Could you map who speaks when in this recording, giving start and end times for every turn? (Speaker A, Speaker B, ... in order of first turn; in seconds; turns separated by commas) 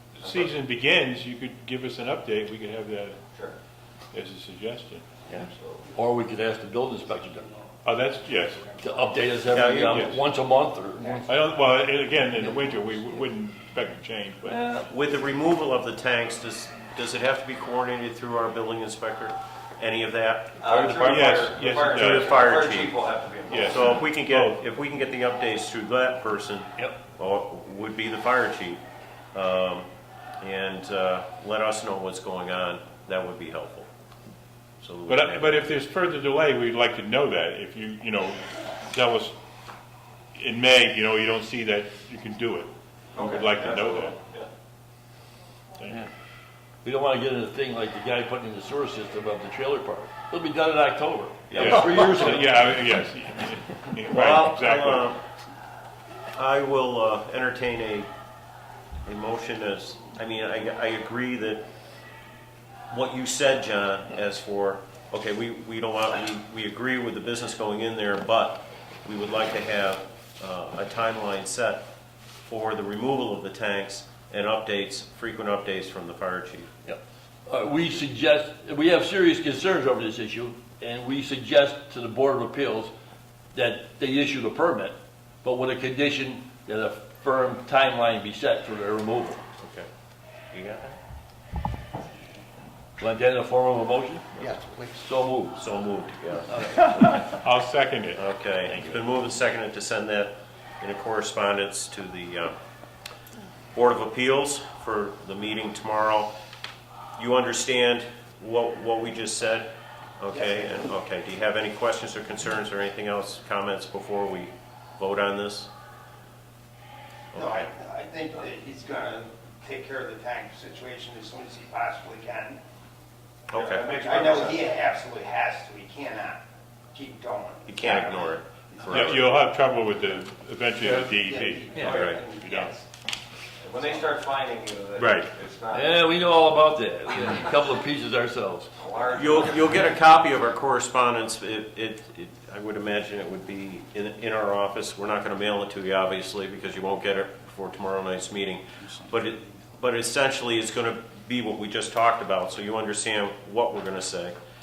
Speaker A: 0.1-3.2, Speaker B: 0.2-0.5, Speaker A: 4.1-5.2, Speaker B: 5.3-5.9, Speaker C: 5.9-7.5, Speaker A: 7.8-8.8, Speaker C: 8.8-11.4, Speaker D: 9.5-10.1, Speaker A: 9.9-10.2, Speaker A: 11.2-14.6, Speaker C: 14.4-14.9, Speaker D: 14.8-20.6, Speaker B: 20.6-23.9, Speaker C: 20.7-21.2, Speaker A: 20.9-22.6, Speaker D: 22.0-23.0, Speaker A: 23.5-24.6, Speaker D: 23.6-28.8, Speaker D: 29.3-29.9, Speaker D: 30.4-33.9, Speaker D: 34.8-35.6, Speaker A: 35.1-39.4, Speaker A: 40.4-44.1, Speaker B: 43.1-44.5, Speaker A: 45.8-46.0, Speaker C: 46.8-52.7, Speaker D: 51.5-52.1, Speaker A: 51.5-55.1, Speaker D: 54.1-55.2, Speaker D: 56.3-58.1, Speaker D: 59.0-61.6, Speaker D: 62.9-71.8, Speaker D: 72.4-76.7, Speaker C: 76.8-82.9, Speaker C: 83.5-89.4, Speaker D: 89.6-89.9, Speaker D: 90.5-91.0, Speaker C: 93.0-95.6, Speaker E: 94.4-95.0, Speaker D: 95.6-97.3, Speaker A: 97.4-98.2, Speaker D: 98.1-102.6, Speaker C: 98.7-99.0, Speaker D: 103.7-106.3, Speaker D: 107.2-115.7, Speaker E: 110.3-110.7, Speaker D: 117.3-117.7, Speaker E: 117.3-122.6, Speaker D: 123.5-123.9, Speaker B: 123.5-124.7, Speaker E: 123.8-126.4, Speaker E: 126.9-129.4, Speaker D: 127.7-129.3, Speaker A: 128.9-131.8, Speaker E: 130.8-132.8, Speaker C: 131.7-132.1, Speaker D: 131.8-132.7, Speaker B: 133.6-136.1, Speaker A: 135.0-135.3, Speaker C: 135.7-138.7, Speaker B: 138.8-139.8, Speaker D: 139.1-154.3